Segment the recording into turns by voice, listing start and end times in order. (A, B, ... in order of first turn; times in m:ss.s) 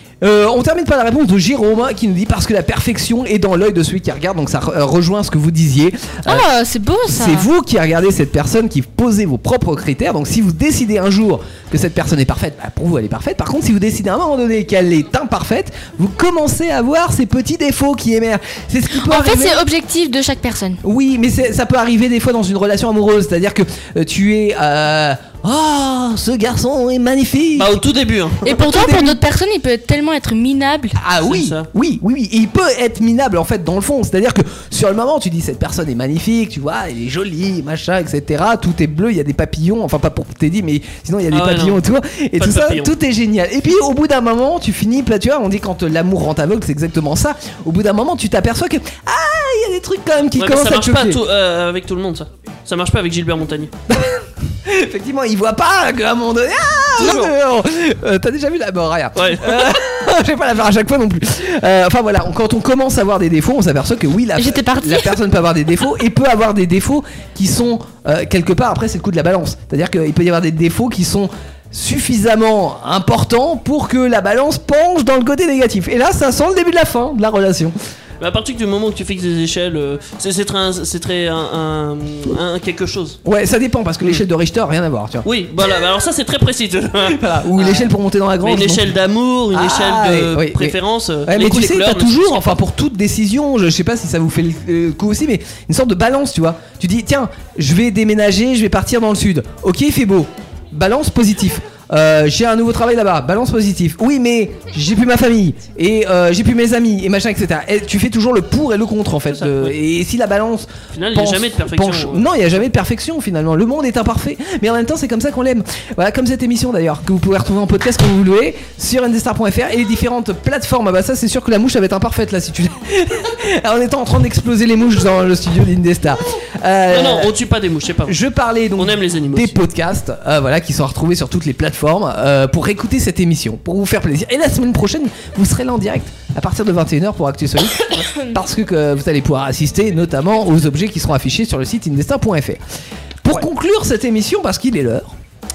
0:00.2-0:06.5 A
0:06.2-0:07.5 B
0:07.0-0:19.6 A
0:18.9-0:20.8 B
0:20.8-0:27.8 A
0:27.6-0:28.6 C
0:28.4-0:31.0 B
0:28.6-0:29.2 A
0:31.0-0:51.2 A
0:31.2-0:31.6 C
0:41.3-0:41.8 C
0:42.4-0:42.9 C
0:50.3-0:53.7 C
0:53.9-1:17.7 A
0:57.0-0:57.3 B
0:59.2-0:59.8 C
1:04.4-1:05.2 B
1:18.2-1:23.2 C
1:23.2-1:25.3 A
1:25.2-1:32.5 C
1:27.1-1:28.9 A
1:29.5-2:07.3 A
1:49.3-1:49.7 C
1:50.9-1:52.5 C
2:06.9-2:08.2 C
2:08.1-2:22.6 A
2:08.7-2:09.6 C
2:23.2-2:25.1 A